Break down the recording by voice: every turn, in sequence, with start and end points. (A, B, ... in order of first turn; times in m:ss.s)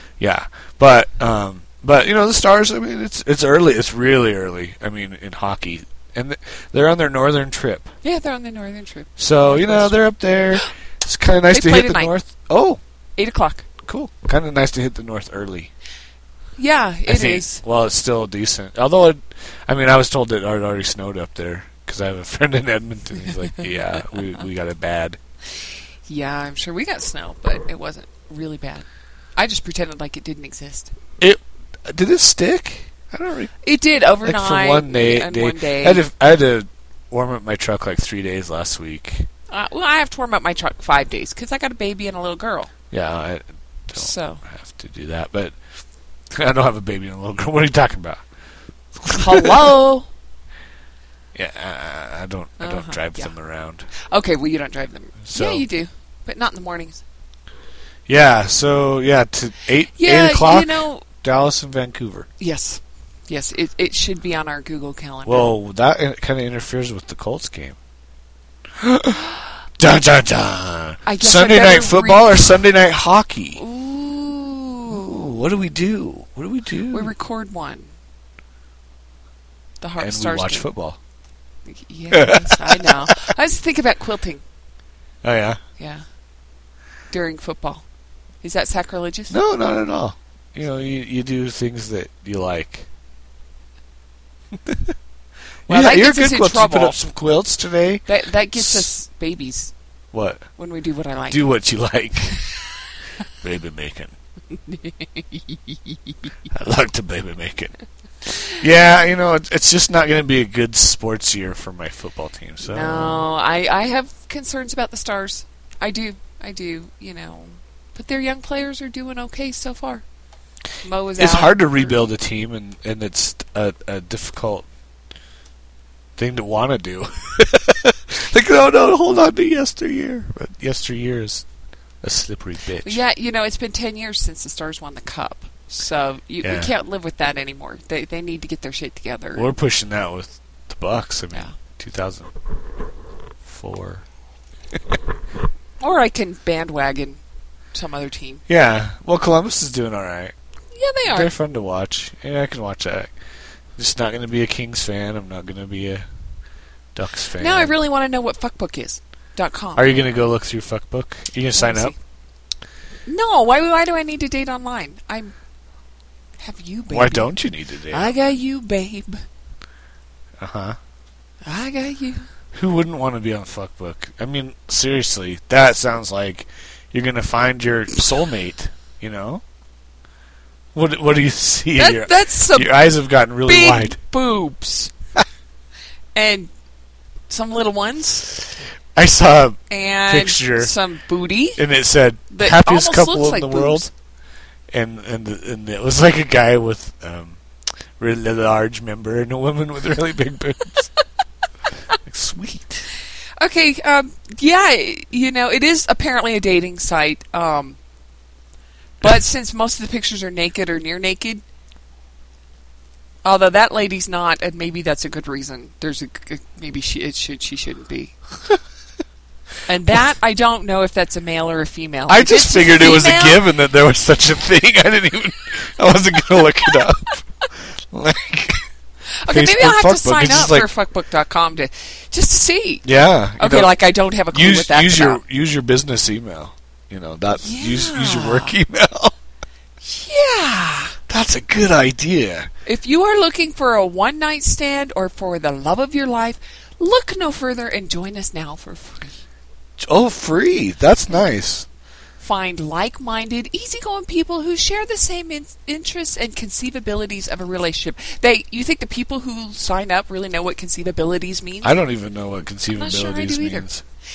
0:00.2-0:07.9 A
0:08.0-0:10.0 B
0:09.2-0:12.8 A
0:11.5-0:12.1 B
0:13.2-0:13.6 B
0:13.8-0:15.7 A
0:16.6-0:17.6 B
0:17.1-0:25.2 A
0:26.1-0:30.9 B
0:31.2-0:33.5 A
0:33.6-0:36.0 B
0:34.2-0:39.3 A
0:39.5-0:42.7 B
0:42.9-0:45.6 A
0:43.9-0:44.4 B
0:46.3-0:48.2 A
0:49.0-0:49.7 A
0:49.1-0:50.1 B
0:51.3-0:53.9 A
0:52.6-0:53.3 B
0:54.1-0:57.0 B
0:55.2-0:55.6 A
0:58.1-1:02.3 A
1:00.0-1:01.0 B
1:02.4-1:05.5 B
1:05.2-1:07.8 A
1:08.8-1:13.6 A
1:11.0-1:12.6 B
1:13.6-1:15.2 B
1:14.9-1:17.1 A
1:16.9-1:17.9 B
1:19.8-1:20.7 B
1:20.0-1:21.0 A
1:21.6-1:24.4 B
1:22.1-1:23.2 A
1:25.2-1:25.6 A
1:25.8-1:26.0 B
1:27.1-1:27.8 B
1:28.4-1:29.4 B
1:29.3-1:32.9 A
1:34.6-1:34.9 A
1:35.7-1:38.9 A
1:35.7-1:37.0 B
1:38.0-1:39.7 B
1:40.1-1:40.4 A
1:40.6-1:41.5 B
1:41.3-1:42.4 A
1:43.4-1:44.1 A
1:44.7-1:45.6 B
1:46.5-1:53.3 A
1:52.6-2:00.0 B
2:00.8-2:02.0 B
2:01.2-2:04.6 A
2:06.2-2:11.4 A
2:12.0-2:13.0 A
2:12.8-2:19.5 B
2:16.4-2:16.7 A
2:19.3-2:22.3 A
2:23.4-2:24.0 A
2:25.8-2:27.2 B
2:27.7-2:28.4 B
2:28.5-2:30.3 A
2:30.7-2:31.3 B
2:31.0-2:33.1 A
2:33.8-2:36.0 A
2:36.9-2:37.7 A
2:37.4-2:39.9 B
2:39.8-2:41.9 A
2:41.5-2:42.0 B
2:43.0-2:45.3 B
2:46.4-2:47.3 B
2:46.9-2:48.1 A
2:47.9-2:49.2 B
2:50.4-2:50.8 A
2:51.4-2:52.2 B
2:52.5-2:59.4 A
3:00.7-3:04.0 A
3:01.8-3:02.7 B
3:03.4-3:04.9 B
3:06.1-3:06.5 B
3:07.3-3:08.3 B
3:09.0-3:10.7 A
3:09.7-3:11.6 B
3:11.6-3:13.9 A
3:12.3-3:13.8 B
3:14.7-3:17.4 A
3:18.0-3:20.9 A
3:22.0-3:22.9 A
3:23.4-3:27.8 B
3:29.0-3:31.4 B
3:33.2-3:38.1 B
3:39.7-3:43.4 B
3:42.1-3:47.2 A
3:47.9-3:48.6 A
3:49.2-3:52.8 B
3:49.3-3:50.7 A
3:52.8-3:53.7 A
3:53.4-3:55.2 B
3:54.3-3:59.1 A
3:57.4-3:58.6 B
3:59.8-4:01.0 B
4:01.1-4:02.5 A
4:02.6-4:09.2 B
4:09.8-4:11.7 A
4:12.2-4:21.8 B
4:21.6-4:23.8 A
4:22.7-4:23.6 B